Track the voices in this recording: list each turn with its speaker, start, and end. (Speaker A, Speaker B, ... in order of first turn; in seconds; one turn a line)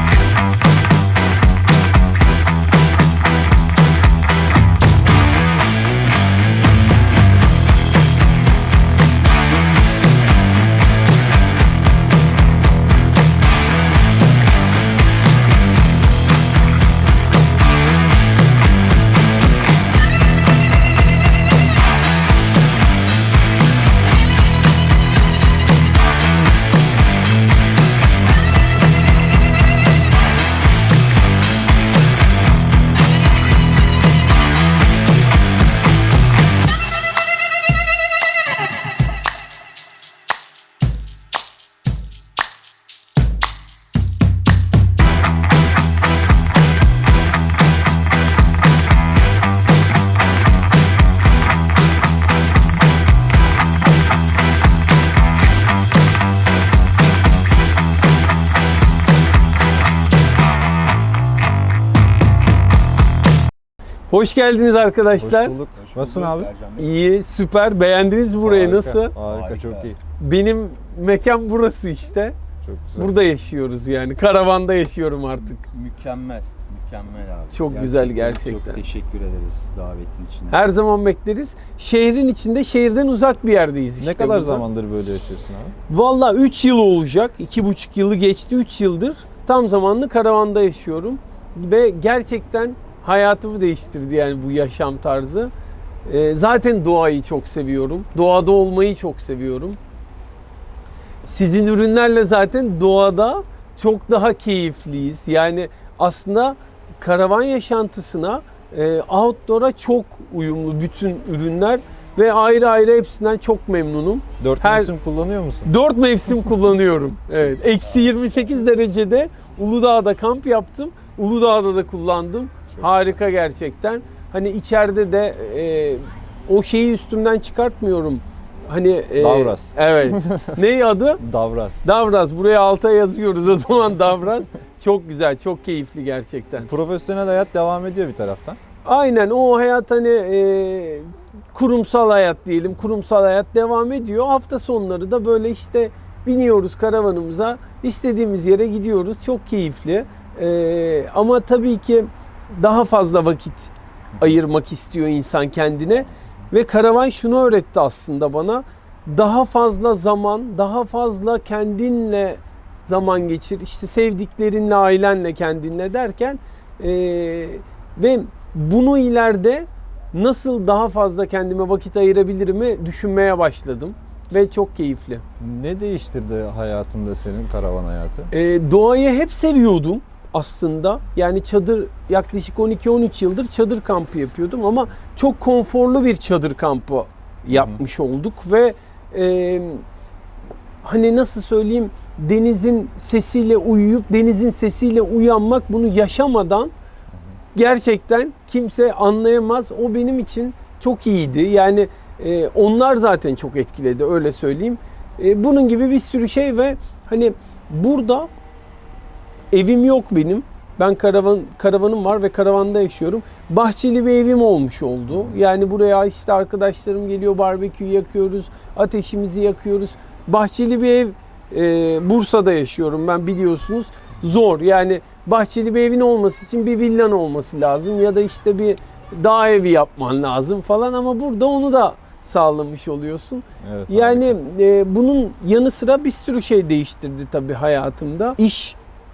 Speaker A: 64.1-65.5
Speaker B: 65.1-66.5
Speaker C: 65.7-66.9
Speaker A: 66.8-69.1
Speaker B: 68.4-70.0
Speaker C: 69.2-69.9
Speaker A: 70.2-72.3
Speaker B: 72.6-73.1
Speaker A: 73.0-75.6
Speaker C: 75.5-80.7
Speaker A: 77.5-78.8
Speaker A: 80.5-84.6
Speaker B: 84.0-85.7
Speaker A: 85.9-95.5
Speaker A: 96.0-99.8
Speaker A: 101.2-114.9
Speaker B: 114.4-115.7
Speaker A: 115.6-131.2
Speaker B: 122.7-123.1
Speaker B: 129.2-130.5
Speaker B: 131.2-131.8
Speaker A: 131.8-136.7
Speaker B: 136.6-138.6
Speaker A: 138.8-175.2
Speaker B: 175.4-178.3
Speaker A: 178.3-189.8
Speaker B: 187.5-187.8
Speaker A: 190.8-196.7
Speaker A: 197.5-208.3
Speaker A: 209.5-238.8
Speaker B: 233.6-234.3